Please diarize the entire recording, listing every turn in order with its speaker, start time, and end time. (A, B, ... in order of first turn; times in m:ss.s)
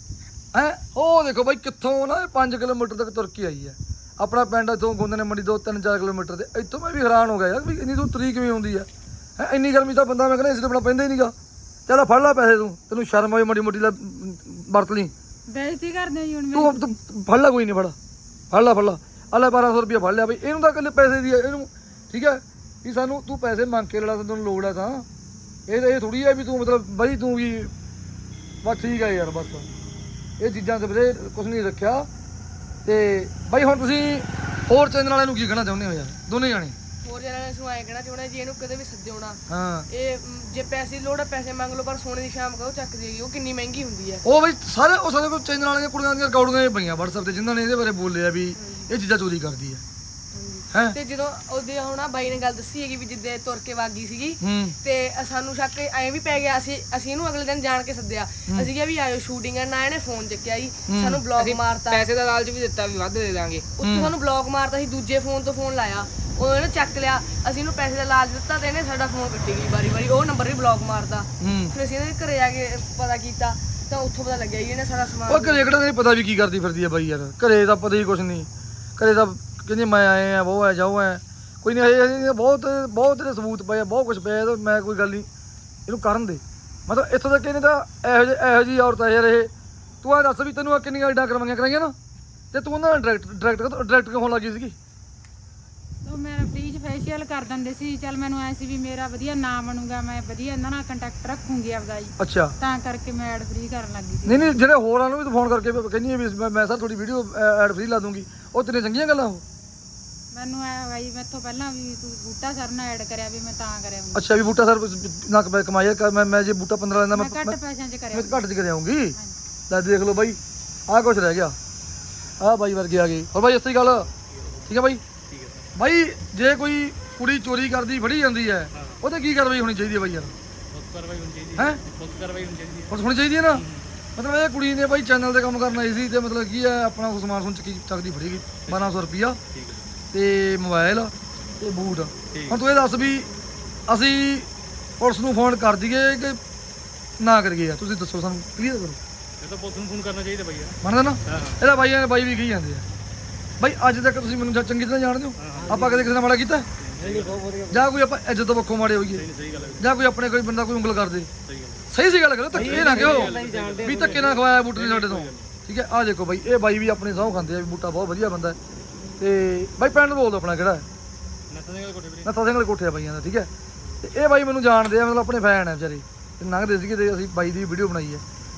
0:00.5-0:11.3 A
0:11.9-0:15.1 A
0:15.5-0:16.8 B
0:16.5-0:18.0 A
0:18.5-0:25.0 A
0:25.7-0:27.7 A
0:28.6-0:29.7 A
0:30.4-0:32.1 A
0:32.8-0:36.8 A
0:37.0-0:44.2 C
0:39.5-0:39.9 A
0:44.2-0:49.8 A
0:48.6-0:48.9 C
0:50.3-1:02.0 C
0:50.7-0:51.0 A
0:54.4-0:54.8 A
1:00.9-1:01.2 A
1:01.4-1:03.7 D
1:03.8-1:15.7 C
1:03.8-1:04.1 A
1:11.4-1:11.7 A
1:15.3-1:25.3 A
1:25.9-1:29.5 A
1:30.0-1:31.9 A
1:32.5-1:34.7 A
1:36.0-1:44.5 B
1:42.2-1:42.5 A
1:44.2-1:49.4 A
1:50.3-1:54.3 B
1:54.1-1:57.6 A
1:57.1-1:58.4 B
1:58.1-1:59.2 A
1:59.7-2:01.6 A
2:02.4-2:04.1 A
2:04.1-2:04.7 E
2:04.6-2:05.0 A
2:05.2-2:05.7 E
2:05.8-2:10.3 A
2:08.7-2:09.0 E
2:10.7-2:13.0 E
2:11.6-2:11.8 A
2:12.9-2:13.6 A
2:13.5-2:13.9 E
2:14.2-2:19.4 A
2:18.7-2:19.8 E
2:20.1-2:23.3 A
2:22.3-2:22.6 E
2:23.9-2:24.5 A
2:25.0-2:26.4 A
2:27.2-2:29.0 A
2:29.4-2:31.6 E
2:30.8-2:32.8 A
2:33.6-2:36.6 A
2:35.4-2:36.1 E
2:36.8-2:37.8 E
2:37.7-2:39.2 A
2:39.1-2:40.0 E
2:39.8-2:41.3 A
2:41.4-2:41.8 E
2:41.9-2:48.6 A
2:42.5-2:45.5 E
2:49.2-2:50.8 A
2:51.5-2:52.3 E
2:52.2-2:53.5 A
2:54.0-2:58.2 A